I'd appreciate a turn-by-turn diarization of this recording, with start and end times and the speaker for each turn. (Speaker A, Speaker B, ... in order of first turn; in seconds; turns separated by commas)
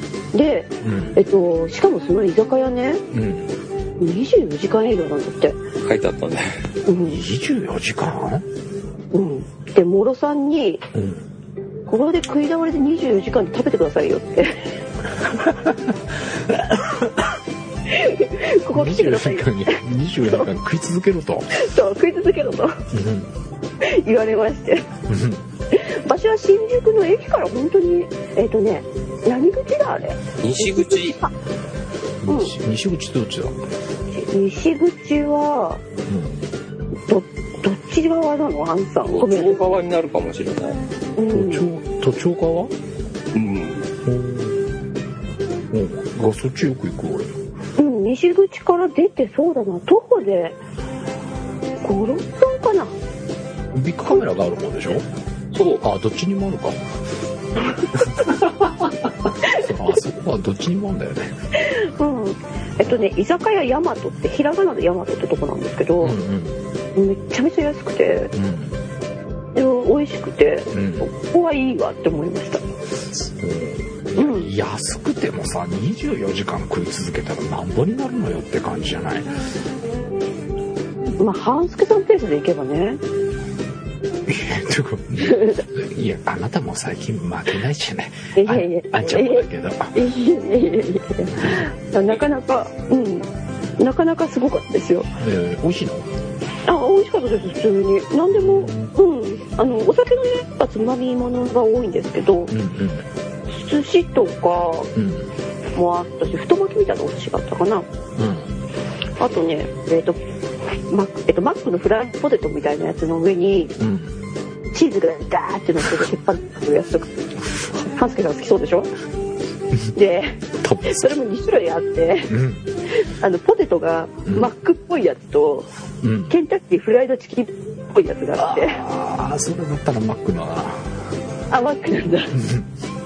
Speaker A: 0.3-3.0, Speaker B: 0.8-1.2, Speaker B: 3.1-3.5, Speaker A: 4.0-5.6, Speaker C: 5.8-6.6, Speaker A: 6.9-7.2, Speaker B: 7.0-8.4, Speaker A: 9.1-10.8, Speaker B: 10.9-11.3, Speaker A: 11.9-14.6, Speaker B: 15.4-17.1, Speaker A: 17.9-20.5, Speaker B: 18.7-21.5, Speaker A: 21.5-22.8, Speaker B: 22.9-23.3, Speaker A: 23.8-24.9, Speaker B: 25.1-25.4, Speaker A: 25.7-31.3, Speaker C: 30.4-31.2, Speaker B: 32.2-33.6, Speaker A: 32.3-32.5, Speaker A: 34.1-35.8, Speaker B: 36.1-36.4, Speaker A: 37.1-39.6, Speaker C: 39.1-40.8, Speaker A: 41.2-41.7, Speaker B: 41.3-42.7, Speaker C: 43.3-43.9, Speaker B: 44.0-44.6, Speaker B: 45.7-47.4, Speaker A: 47.8-50.6, Speaker A: 51.8-53.0, Speaker B: 53.7-55.1, Speaker C: 55.5-55.8, Speaker B: 55.8-56.8, Speaker B: 58.0-58.3, Speaker B: 59.5-61.4, Speaker A: 61.6-66.2, Speaker B: 66.0-66.6, Speaker A: 67.0-68.3, Speaker B: 68.3-68.8, Speaker A: 69.5-72.6, Speaker B: 70.7-71.1, Speaker B: 73.1-79.3, Speaker A: 74.2-74.5, Speaker A: 81.2-83.0, Speaker B: 84.3-90.0, Speaker A: 88.4-95.1, Speaker B: 91.3-91.7, Speaker B: 95.2-96.1, Speaker A: 96.7-102.5, Speaker B: 98.3-98.9, Speaker B: 102.5-103.1, Speaker A: 103.5-104.9, Speaker B: 105.0-105.3, Speaker A: 105.8-107.9, Speaker B: 108.2-108.5, Speaker A: 109.2-110.2, Speaker A: 110.9-113.8, Speaker B: 113.8-114.2, Speaker A: 114.7-117.1, Speaker B: 117.5-117.8, Speaker A: 117.8-118.9, Speaker A: 120.0-122.3, Speaker B: 120.6-121.2, Speaker B: 122.3-122.7, Speaker A: 122.9-125.7, Speaker B: 126.0-126.3, Speaker A: 126.3-128.8, Speaker B: 128.4-130.9, Speaker A: 131.5-132.4, Speaker B: 132.3-132.7